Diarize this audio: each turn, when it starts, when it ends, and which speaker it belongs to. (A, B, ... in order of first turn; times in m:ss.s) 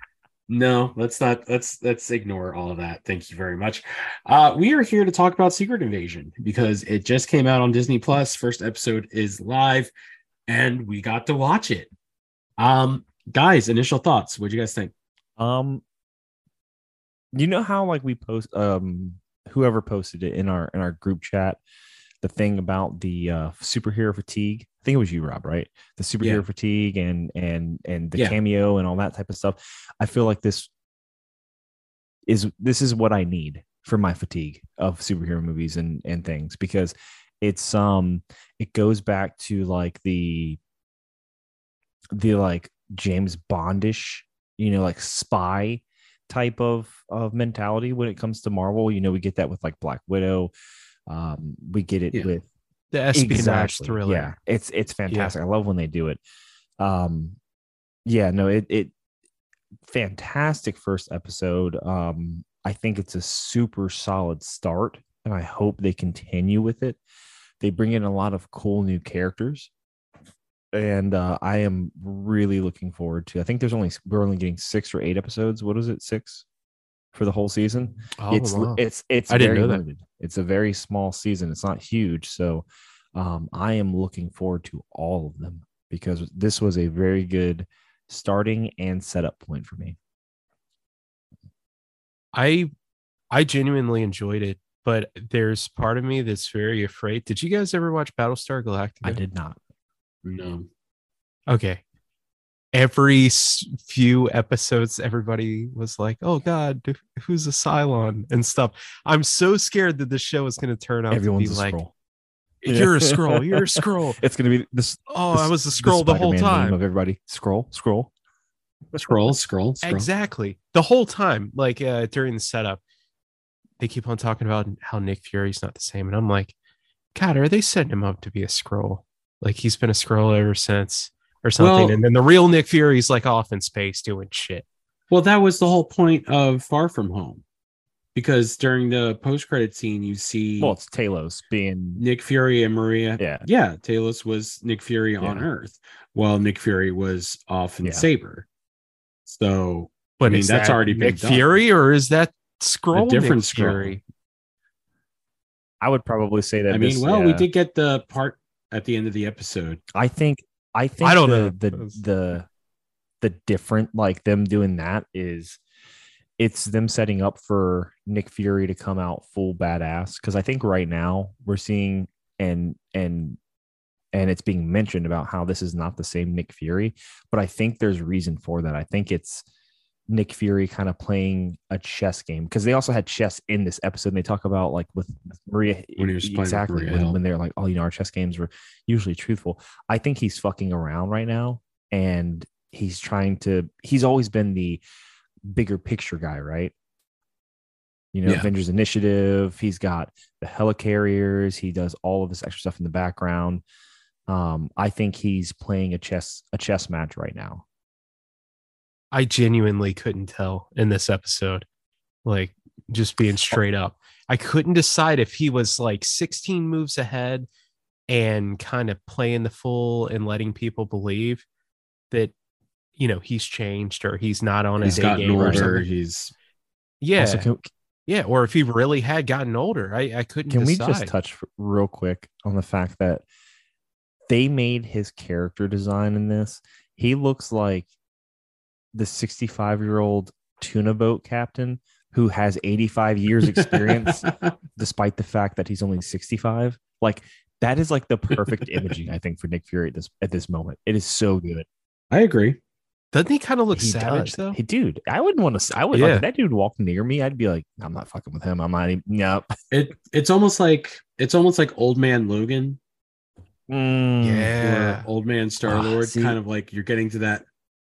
0:00.5-0:09.9 A
0:10.5-0:11.9 A
0:12.6-0:14.9 A
0:15.4-0:15.8 B
0:17.3-0:21.6 B
0:22.2-0:30.7 B
0:32.3-0:40.6 B
0:42.1-0:50.5 B
0:51.1-0:52.5 B
0:52.9-0:54.3 C
0:53.1-0:56.2 B
0:55.1-0:55.4 C
0:56.8-0:57.4 B
0:58.1-0:58.9 B
0:59.8-1:07.0 B
1:07.6-1:09.7 B
1:10.7-1:16.4 B
1:17.1-1:30.0 B
1:18.2-1:19.8 C
1:32.3-1:32.7 C
1:33.3-1:39.2 C
1:39.0-1:39.6 B
1:40.2-1:40.7 A
1:41.5-1:41.8 C
1:42.7-1:51.8 C
1:51.1-1:51.9 B
1:52.6-1:54.2 C
1:52.7-1:58.1 B
1:55.1-1:56.8 C
1:59.0-2:00.1 A
1:59.8-2:02.8 C
2:03.8-2:06.5 C
2:07.2-2:14.7 C
2:11.6-2:12.0 A
2:15.1-2:17.4 A
2:18.2-2:20.8 A
2:20.6-2:22.0 B
2:22.0-2:28.5 A
2:23.2-2:23.4 B
2:25.2-2:25.5 B
2:29.3-2:31.5 A
2:30.2-2:34.0 C
2:32.9-2:34.0 A
2:35.8-2:37.5 B
2:36.7-2:39.8 A
2:39.9-2:42.5 B
2:41.0-2:42.0 C
2:43.2-2:45.6 B
2:46.4-2:53.4 B
2:54.1-2:59.4 B
3:00.1-3:14.8 B
3:06.0-3:07.2 A
3:15.5-3:16.7 B
3:18.1-3:23.6 B
3:24.3-3:27.6 B
3:29.1-3:31.6 C
3:32.2-3:37.5 C
3:38.1-3:41.4 C
3:43.0-3:45.8 C
3:44.8-3:46.3 A
3:44.9-3:45.7 B
3:47.0-3:47.5 C
3:47.2-3:47.7 B
3:48.1-3:51.1 C
3:50.5-3:53.2 B
3:54.3-3:57.9 B
3:58.9-4:11.7 B
4:03.6-4:04.3 A
4:12.1-4:12.6 A
4:13.1-4:14.6 C
4:13.7-4:19.6 B
4:15.9-4:16.3 C
4:19.7-4:22.8 A
4:23.7-4:24.6 B
4:24.2-4:25.1 C
4:24.6-4:27.5 A
4:25.7-4:26.4 B